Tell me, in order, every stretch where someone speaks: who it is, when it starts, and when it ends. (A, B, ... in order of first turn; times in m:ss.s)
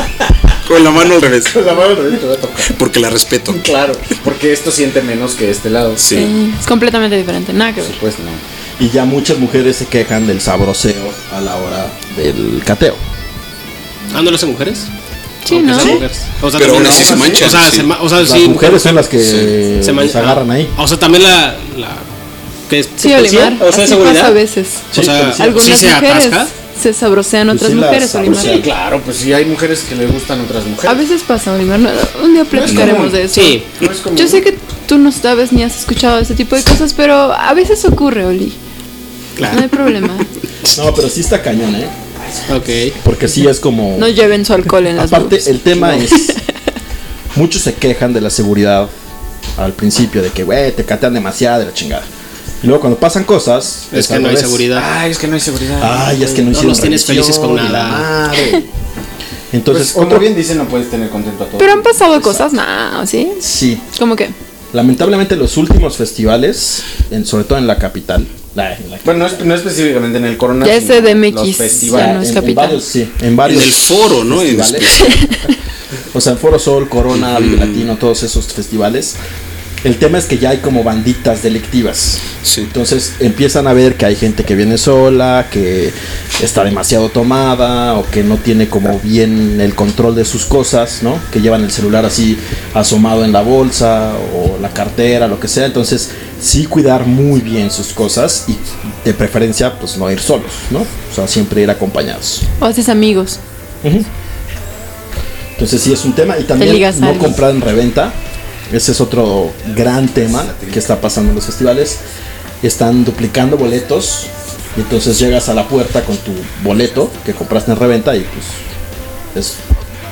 0:00.6-0:01.6 A
0:01.5-0:02.7 B
0:02.6-0:03.7 A
0:03.5-0:06.1 B
0:06.0-0:06.4 A
0:06.1-0:08.0 C
0:07.8-0:08.4 B
0:08.8-0:13.0 D
0:14.1-0:14.9 E
0:15.4-0:16.0 C
0:15.5-0:19.1 E
0:15.8-0:16.0 D
0:16.5-0:17.9 A
0:16.7-0:17.5 B
0:18.2-0:20.7 D
0:19.2-0:19.5 A
0:19.8-0:22.1 E
0:22.7-0:24.4 E
0:23.0-0:28.6 C
0:24.9-0:25.8 D
0:24.9-0:26.5 E
0:27.5-0:28.7 D
0:28.3-0:31.0 B
0:30.9-0:38.6 C
0:32.5-0:33.0 D
0:32.5-0:33.2 B
0:33.3-0:33.7 E
0:33.8-0:34.4 B
0:39.4-0:39.6 E
0:39.4-0:40.3 C
0:40.7-0:41.9 D
0:42.5-0:43.0 E
0:43.0-0:44.2 D
0:44.0-0:46.4 C
0:45.0-0:46.4 D
0:47.3-0:48.9 D
0:49.6-0:52.1 D
0:52.6-0:54.7 D
0:53.9-0:54.9 E
0:54.7-0:56.5 B
0:55.8-0:58.7 D
0:56.5-0:58.1 E
0:59.5-1:00.3 D
0:59.7-1:02.0 B
1:01.6-1:03.4 C
1:02.2-1:02.5 D
1:03.4-1:03.8 D
1:03.9-1:04.4 C
1:04.7-1:09.4 D
1:09.0-1:12.2 B
1:10.6-1:12.8 C
1:11.9-1:15.1 D
1:13.4-1:15.2 A
1:15.0-1:15.4 C
1:16.1-1:19.2 D
1:17.2-1:17.9 A
1:19.8-1:42.5 D
1:22.4-1:22.7 A
1:42.6-1:43.4 C
1:43.8-1:44.1 D
1:45.6-1:48.2 D
1:46.6-1:47.4 C
1:48.7-1:52.0 D
1:50.4-1:50.7 B
1:52.6-1:58.6 D
1:59.3-1:59.6 D